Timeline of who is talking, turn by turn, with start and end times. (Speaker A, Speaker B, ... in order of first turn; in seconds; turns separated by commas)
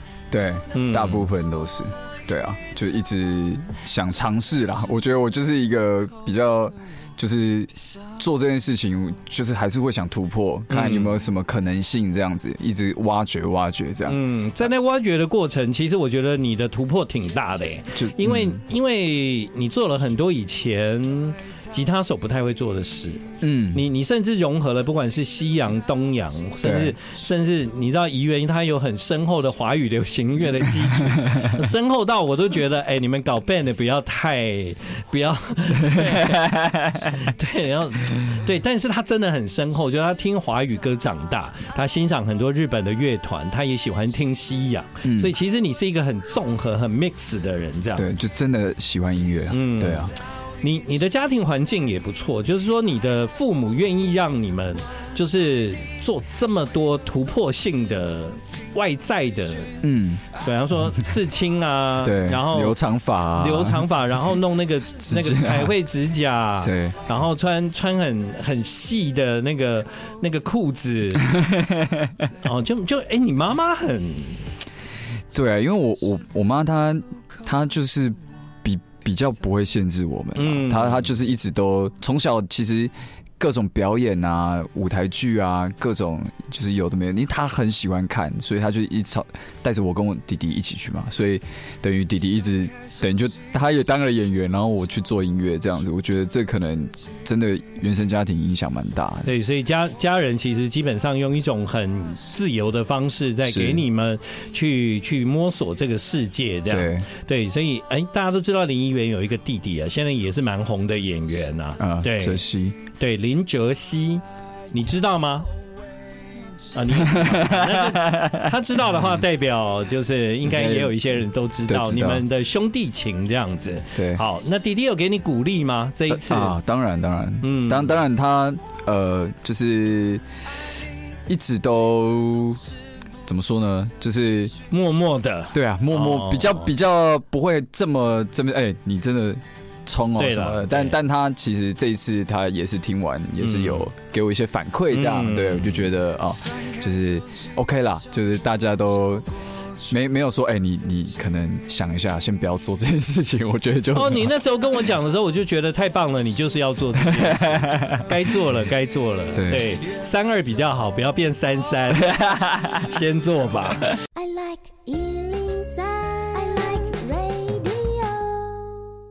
Speaker A: 0.3-14.6, Speaker B: 0.7-1.3, Speaker B: 10.7-11.2, Speaker B: 14.1-48.1, Speaker A: 17.9-18.6, Speaker A: 23.4-23.8, Speaker A: 26.6-27.0, Speaker A: 31.0-31.6, Speaker A: 35.8-37.2, Speaker A: 45.0-45.3, Speaker A: 48.0-50.1, Speaker B: 49.5-50.1, Speaker B: 50.6-59.8, Speaker A: 59.8-60.2, Speaker B: 60.3-62.8, Speaker A: 62.0-63.9, Speaker B: 63.4-71.4, Speaker A: 65.0-65.8, Speaker A: 66.6-67.0, Speaker A: 71.2-72.3, Speaker B: 72.4-74.4, Speaker A: 75.3-99.3, Speaker B: 80.4-81.0, Speaker B: 99.2-115.5, Speaker A: 103.4-103.9, Speaker A: 106.7-107.1, Speaker A: 111.8-112.8, Speaker B: 116.7-126.6, Speaker A: 116.9-118.5, Speaker A: 120.4-121.1, Speaker A: 121.7-122.2, Speaker A: 124.0-124.2, Speaker A: 126.1-130.2, Speaker B: 127.4-128.0, Speaker A: 131.3-132.6, Speaker A: 133.2-134.5, Speaker B: 134.7-136.7, Speaker A: 135.5-149.2, Speaker B: 140.2-141.0, Speaker B: 143.4-143.9, Speaker B: 144.9-145.9, Speaker A: 149.9-154.3, Speaker B: 153.9-163.9, Speaker A: 157.0-158.0, Speaker A: 159.3-159.7, Speaker A: 162.1-162.8, Speaker C: 164.1-168.9